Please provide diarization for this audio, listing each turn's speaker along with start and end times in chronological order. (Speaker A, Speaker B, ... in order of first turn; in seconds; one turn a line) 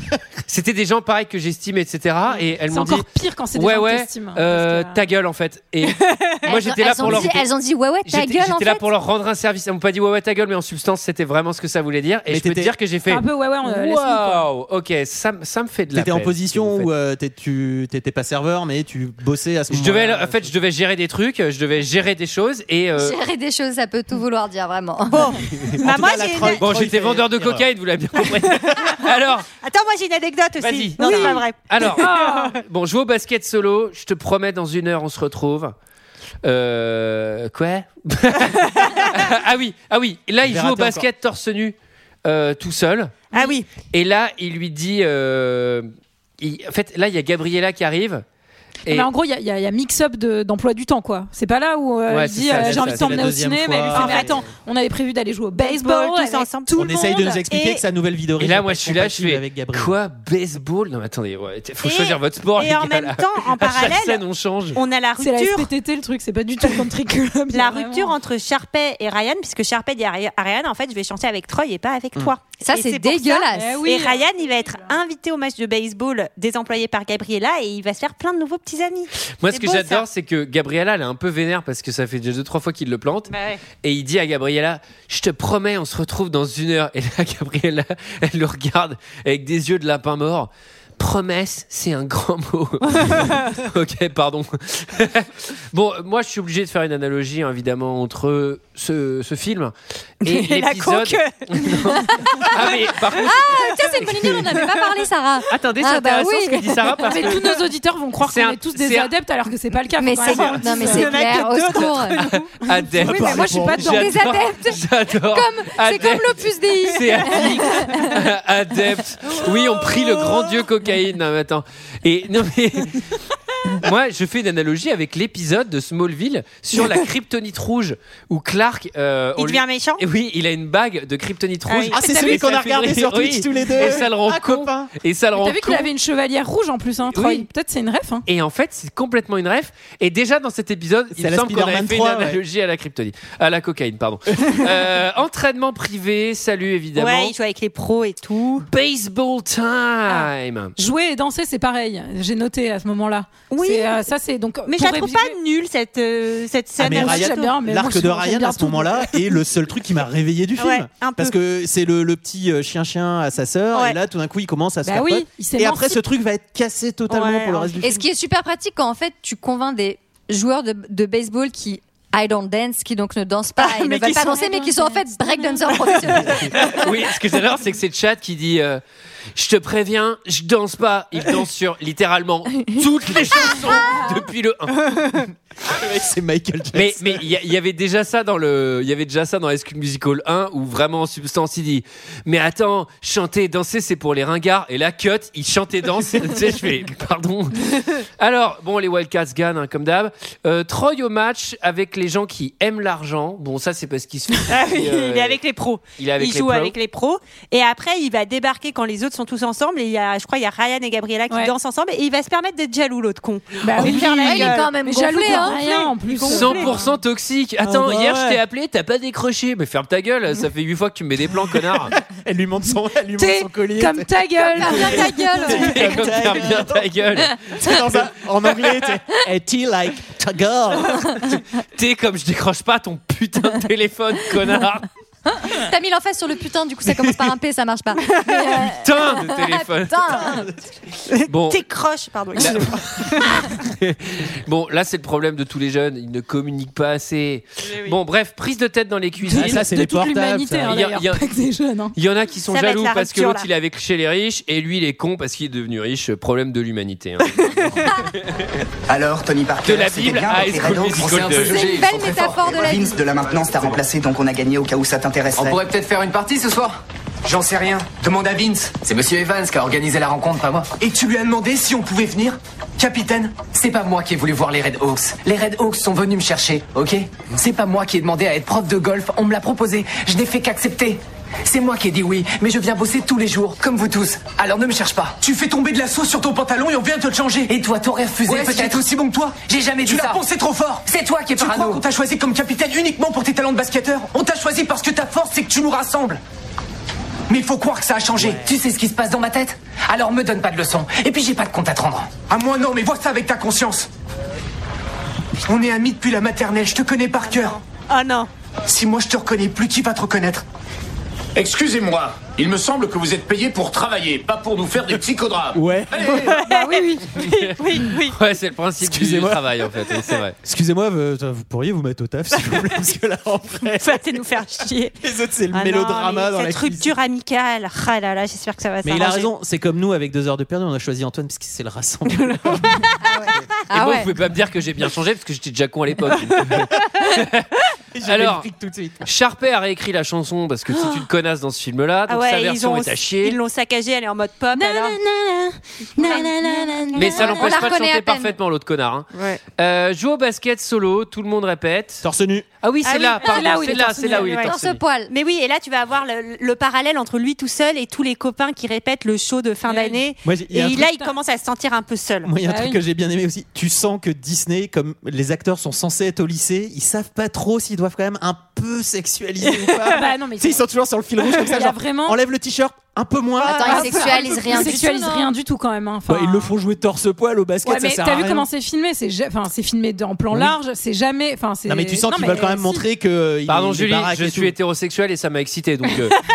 Speaker A: 0.5-7.5
Speaker B: 2.6-5.0
Speaker C: 5.9-6.5
Speaker D: 6.5-8.9
Speaker E: 7.0-7.3
Speaker A: 8.1-16.9
Speaker E: 12.3-12.7
Speaker B: 13.1-14.5
Speaker E: 15.9-20.5
Speaker A: 19.7-23.2
Speaker D: 23.0-25.9
Speaker C: 25.1-26.6
Speaker E: 25.8-27.7
Speaker A: 26.6-29.5
Speaker C: 28.6-29.0
Speaker C: 29.6-32.5
Speaker A: 30.6-35.8
Speaker B: 31.0-31.4
Speaker B: 32.0-32.5
Speaker A: 36.4-43.3
Speaker E: 40.4-41.1
Speaker C: 43.3-43.7
Speaker A: 43.9-45.9
Speaker A: 46.4-48.2
Speaker B: 48.9-57.4
Speaker A: 52.1-53.2
Speaker E: 52.5-54.4
Speaker C: 53.9-54.4
Speaker C: 55.6-57.8
Speaker E: 56.8-60.0
Speaker A: 58.4-64.8
Speaker C: 61.8-65.7
Speaker B: 65.2-68.1
Speaker C: 67.5-80.0
Speaker D: 72.6-73.8
Speaker B: 73.5-74.9
Speaker A: 79.4-104.7
Speaker C: 83.3-83.6
Speaker C: 92.9-93.6
Speaker C: 100.2-101.5
Speaker D: 102.2-102.5
Speaker D: 103.2-107.1
Speaker A: 105.5-107.6
Speaker B: 107.1-111.3
Speaker A: 108.2-109.1
Speaker D: 110.0-112.3
Speaker C: 110.2-112.5
Speaker A: 111.7-123.2
Speaker B: 113.0-114.0
Speaker E: 113.0-114.1
Speaker D: 113.7-118.2
Speaker A: 123.8-135.9
Speaker C: 129.4-130.0
Speaker C: 131.7-132.3
Speaker E: 131.9-134.9
Speaker B: 135.3-138.2
Speaker A: 137.1-137.5
Speaker A: 138.3-147.3
Speaker E: 141.1-142.4
Speaker C: 146.9-148.7
Speaker A: 148.7-150.7
Speaker B: 150.8-155.4
Speaker C: 153.5-154.0
Speaker C: 154.7-157.5
Speaker E: 156.8-168.0
Speaker B: 156.8-159.4
Speaker C: 160.6-161.3
Speaker B: 164.8-166.0
Speaker C: 167.1-167.8
Speaker D: 167.8-176.8
Speaker C: 173.6-174.4
Speaker B: 174.1-175.8
Speaker C: 175.9-176.7
Speaker A: 176.7-178.8
Speaker A: 179.3-185.2
Speaker E: 185.6-187.3
Speaker A: 186.7-205.4
Speaker C: 204.5-216.8
Speaker A: 206.0-206.8
Speaker B: 213.6-216.9
Speaker D: 213.8-215.7
Speaker A: 216.3-221.9
Speaker E: 217.6-218.4
Speaker E: 221.4-231.2
Speaker B: 223.2-225.7
Speaker D: 224.5-226.2
Speaker A: 225.5-227.4
Speaker A: 231.6-234.9
Speaker D: 235.3-240.5
Speaker C: 238.0-238.4
Speaker A: 238.6-240.3
Speaker C: 241.1-243.5
Speaker A: 241.3-241.6
Speaker A: 242.3-249.7
Speaker B: 249.2-251.9
Speaker E: 249.3-250.8
Speaker A: 250.7-251.2
Speaker A: 251.9-258.4
Speaker C: 252.4-253.5
Speaker F: 258.9-265.7
Speaker A: 259.6-261.6
Speaker D: 261.4-263.0
Speaker G: 261.9-262.5
Speaker G: 265.4-266.7
Speaker G: 267.2-270.7
Speaker H: 270.8-273.5
Speaker G: 273.4-285.2
Speaker H: 285.2-287.6
Speaker G: 287.5-288.9
Speaker H: 288.2-296.2
Speaker G: 289.4-290.2
Speaker G: 290.9-291.8
Speaker H: 297.3-298.5
Speaker G: 298.2-302.1
Speaker H: 302.3-303.9
Speaker H: 305.4-307.6
Speaker C: 307.3-308.3
Speaker H: 308.7-310.4
Speaker I: 311.4-316.3
Speaker E: 315.5-316.3
Speaker C: 316.2-318.2
Speaker B: 316.3-317.1
Speaker A: 317.2-320.4
Speaker E: 318.8-324.0
Speaker C: 323.8-324.9
Speaker E: 325.0-326.9
Speaker C: 325.5-329.3
Speaker E: 328.8-332.9
Speaker C: 332.1-333.0
Speaker D: 333.0-334.1
Speaker A: 333.7-337.5
Speaker E: 337.9-339.1
Speaker A: 338.1-338.5
Speaker A: 339.0-343.4
Speaker C: 342.1-345.0
Speaker B: 344.6-347.6
Speaker C: 346.0-347.4
Speaker D: 346.1-348.4
Speaker A: 346.9-352.1
Speaker C: 349.1-349.4
Speaker E: 352.0-352.5
Speaker A: 352.6-354.8
Speaker C: 352.8-354.5
Speaker B: 353.2-354.4
Speaker D: 354.4-355.1
Speaker C: 355.1-362.3
Speaker B: 359.7-360.0
Speaker E: 360.2-360.9
Speaker E: 362.2-374.8
Speaker B: 362.5-362.8
Speaker B: 369.9-370.6
Speaker B: 371.4-372.2
Speaker D: 373.4-375.3
Speaker B: 373.5-376.5
Speaker E: 376.1-378.5
Speaker B: 377.6-382.8
Speaker E: 380.3-380.6
Speaker E: 381.7-384.6
Speaker A: 383.5-386.2